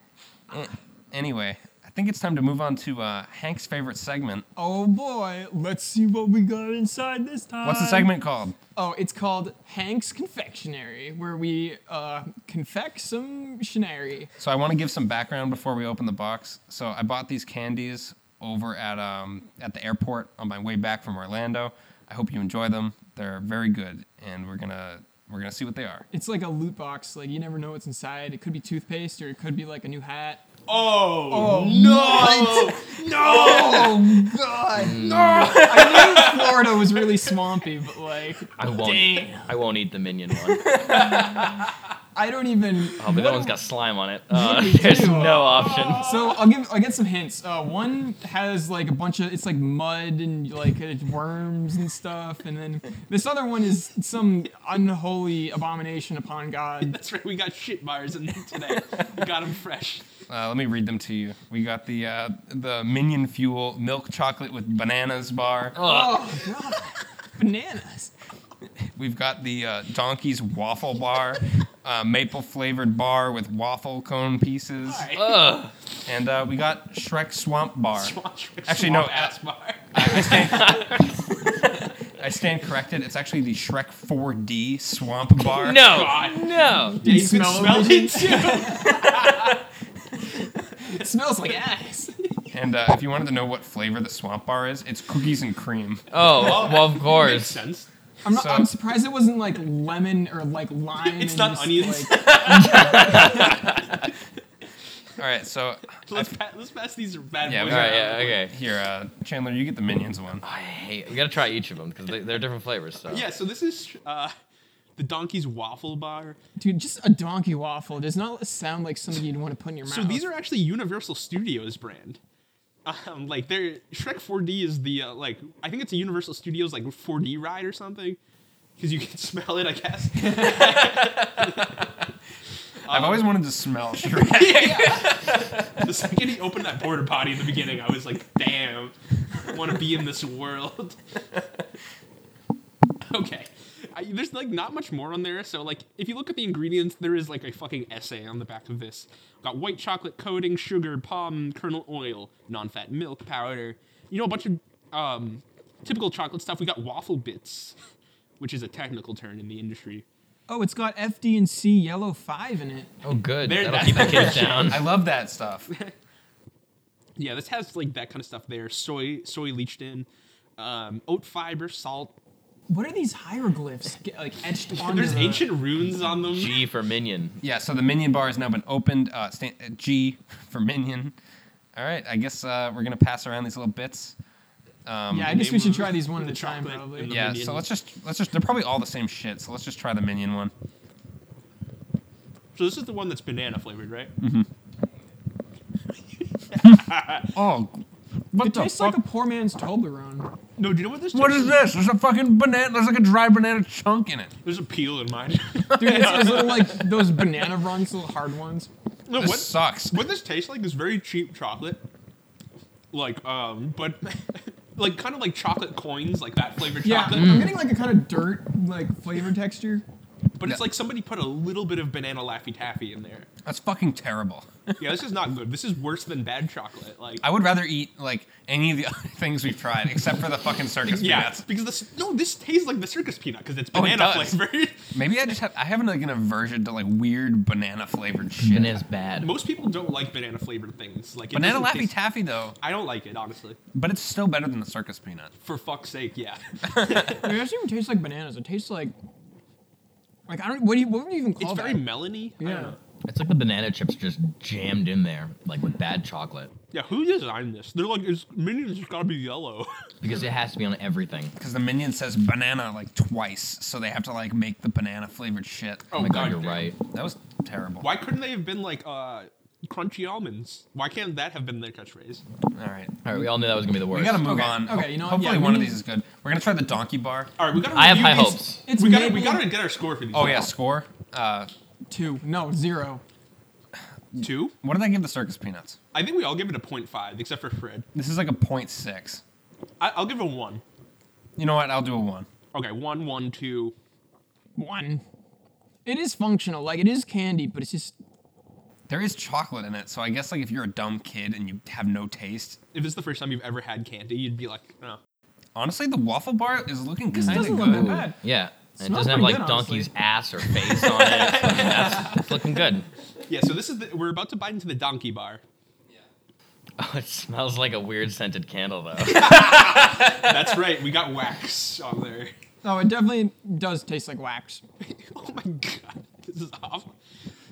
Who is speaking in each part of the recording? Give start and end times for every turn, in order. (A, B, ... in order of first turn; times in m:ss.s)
0:00.5-0:04.4 A
0:04.6-0:08.1 B
0:07.6-0:08.6 A
0:08.7-0:14.3 B
0:14.4-0:26.0 A
0:26.1-0:30.4 B
0:30.7-0:34.4 C
0:31.3-0:39.5 B
0:34.7-0:35.8 D
0:35.0-0:37.0 C
0:38.6-0:41.6 D
0:40.8-0:41.5 B
0:42.1-0:43.6 B
0:43.0-0:46.2 D
0:44.3-0:57.0 B
0:45.5-0:46.1 C
0:56.8-1:00.0 C
1:00.3-1:05.8 A
1:05.8-1:06.4 D
1:05.8-1:08.1 B
1:08.9-1:15.1 A
1:14.8-1:15.5 C
1:15.1-1:15.7 D
1:16.0-1:19.4 A
1:17.9-1:20.9 C
1:19.9-1:21.0 A
1:20.4-1:20.9 D
1:22.1-1:26.0 A
1:25.6-1:27.0 D
1:25.7-1:29.6 C
1:27.0-1:29.5 B
1:30.4-1:32.1 B
1:32.5-1:36.0 A
1:36.1-1:37.6 D
1:36.2-1:37.9 C
1:38.2-1:42.3 B
1:38.3-1:38.7 A
1:41.0-1:44.0 C
1:42.2-1:44.1 D
1:45.2-1:46.3 A
1:46.0-1:48.4 C
1:47.4-1:50.4 A
1:47.7-1:48.5 D
1:50.4-1:53.3 D
1:53.1-1:54.3 C
1:55.0-1:56.4 C
1:56.6-2:00.3 B
1:59.8-2:02.2 C
2:02.8-2:08.2 C
2:08.8-2:11.9 C
2:10.3-2:11.5 A
2:12.8-2:13.4 C
2:12.9-2:15.9 A
2:14.1-2:21.0 C
2:23.0-2:37.8 C
2:38.4-2:40.0 C
2:40.5-2:42.9 B
2:43.0-2:44.8 D
2:43.4-2:44.9 C
2:43.8-2:45.7 A
2:47.2-2:50.1 C
2:50.6-2:52.1 C
2:52.7-2:55.5 B
2:54.7-2:56.6 C
2:56.2-2:57.4 D
2:57.4-3:01.1 A
3:01.7-3:04.2 A
3:04.8-3:05.5 A
3:05.1-3:07.1 B
3:05.2-3:07.7 C
3:07.1-3:10.5 A
3:12.5-3:14.1 C
3:14.2-3:14.5 A
3:16.5-3:17.3 C
3:17.3-3:19.0 A
3:18.4-3:20.3 B
3:20.6-3:21.6 C
3:21.1-3:24.3 A
3:24.4-3:27.3 C
3:25.8-3:28.7 B
3:25.8-3:26.2 A
3:29.1-3:31.8 C
3:29.2-3:30.0 A
3:32.9-3:37.5 C
3:36.8-3:39.8 B
3:37.1-3:37.6 D
3:40.4-3:43.3 C
3:43.4-3:44.7 A
3:44.8-3:47.2 C
3:47.2-3:51.4 A
3:50.8-3:54.9 C
3:53.7-3:54.4 A
3:54.9-3:58.8 A
3:58.4-3:59.3 D
3:59.2-4:01.9 C
4:01.3-4:02.6 A
4:02.6-4:03.6 C
4:03.7-4:05.3 A
4:05.4-4:07.3 C
4:06.7-4:07.0 A
4:07.1-4:08.9 B
4:10.3-4:11.9 B
4:11.4-4:12.8 C
4:12.4-4:12.8 B
4:13.0-4:16.5 D
4:16.7-4:19.7 C
4:20.0-4:21.3 D
4:21.4-4:26.2 A
4:25.9-4:26.7 C
4:25.9-4:26.8 D
4:26.9-4:27.9 A
4:27.8-4:32.2 C
4:32.5-4:33.3 A
4:33.0-4:34.4 D
4:33.9-4:37.3 A
4:34.2-4:35.8 B
4:37.4-4:40.5 C
4:37.7-4:38.6 D
4:38.6-4:39.5 B
4:40.1-4:41.5 A
4:41.9-4:43.0 B
4:44.1-4:45.8 A
4:44.2-4:44.5 C
4:45.9-4:47.9 C
4:47.9-4:49.2 A
4:49.8-4:50.6 C
4:51.4-4:52.3 A
4:52.5-4:53.7 C
4:54.6-4:55.0 B
4:55.8-4:58.0 B
4:58.9-5:02.6 A
5:02.7-5:05.0 C
5:05.5-5:08.0 A
5:07.1-5:08.2 B
5:07.2-5:12.9 D
5:08.7-5:09.9 B
5:10.9-5:12.3 C
5:13.3-5:15.4 C
5:16.8-5:20.1 D
5:19.0-5:22.3 C
5:22.6-5:24.6 B
5:24.8-5:26.9 C